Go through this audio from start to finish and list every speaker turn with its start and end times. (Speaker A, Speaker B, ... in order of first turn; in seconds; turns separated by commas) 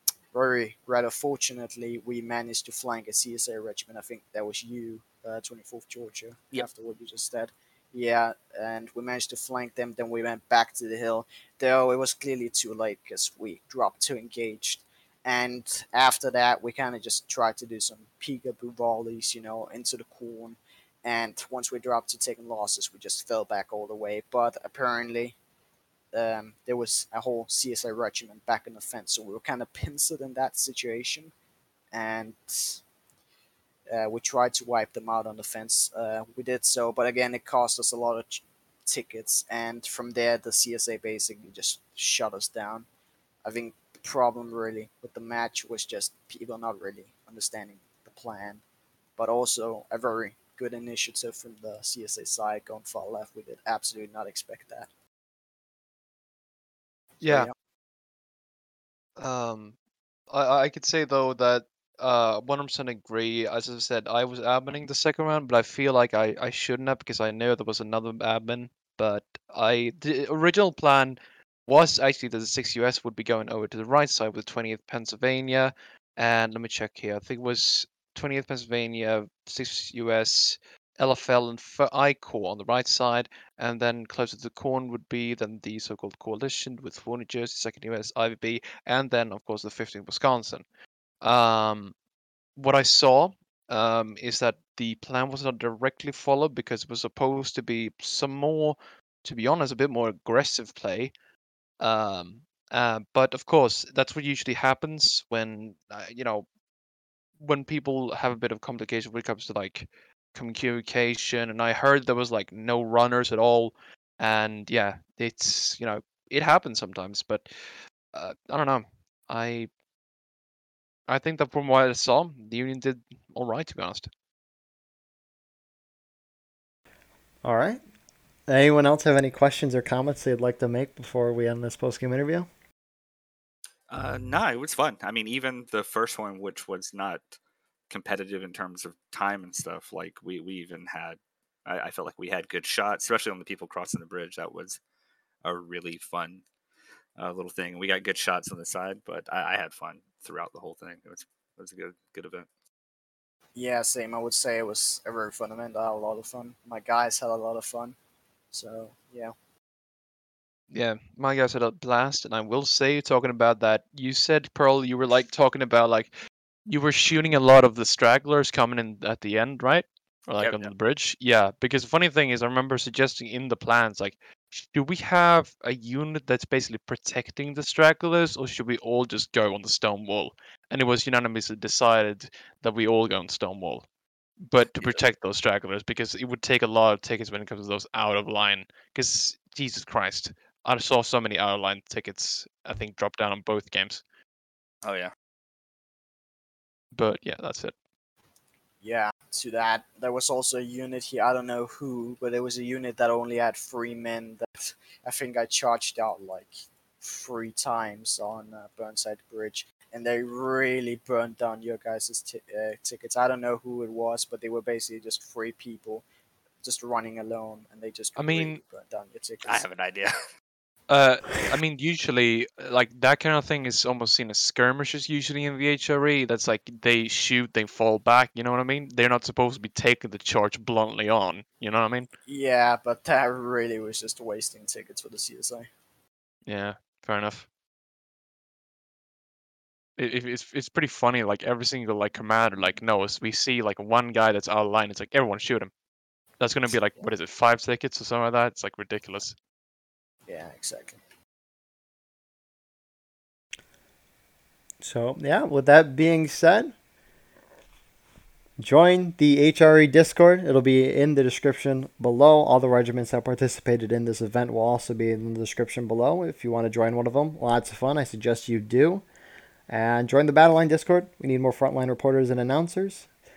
Speaker A: 0.3-25.4, Speaker A: 26.1-31.3, Speaker A: 31.9-32.8, Speaker A: 33.9-42.9, Speaker A: 43.4-48.6, Speaker A: 49.2-54.9, Speaker B: 57.2-57.5, Speaker A: 57.2-57.5, Speaker B: 59.2-59.8, Speaker B: 60.3-90.6, Speaker B: 91.2-91.9, Speaker B: 92.5-101.1, Speaker B: 101.8-106.5, Speaker B: 107.4-117.5, Speaker B: 118.1-119.7, Speaker B: 121.1-124.1, Speaker C: 127.4-127.8, Speaker C: 128.5-132.5, Speaker D: 133.9-137.4, Speaker D: 137.9-144.8, Speaker D: 145.4-146.4, Speaker D: 147.2-152.5, Speaker A: 153.5-157.9, Speaker A: 158.5-159.3, Speaker B: 160.7-166.1, Speaker B: 166.7-183.8, Speaker D: 170.4-170.7, Speaker B: 184.4-194.0, Speaker D: 184.7-185.0, Speaker D: 194.8-195.1, Speaker B: 196.9-197.7, Speaker A: 198.8-216.0, Speaker A: 216.6-219.6, Speaker B: 218.1-218.6, Speaker D: 219.4-220.1, Speaker B: 220.9-232.1, Speaker A: 232.2-235.7, Speaker B: 236.4-237.4, Speaker B: 240.0-245.7, Speaker B: 246.4-249.3, Speaker A: 250.3-251.0, Speaker C: 254.8-256.7, Speaker C: 258.6-269.0, Speaker C: 269.7-273.1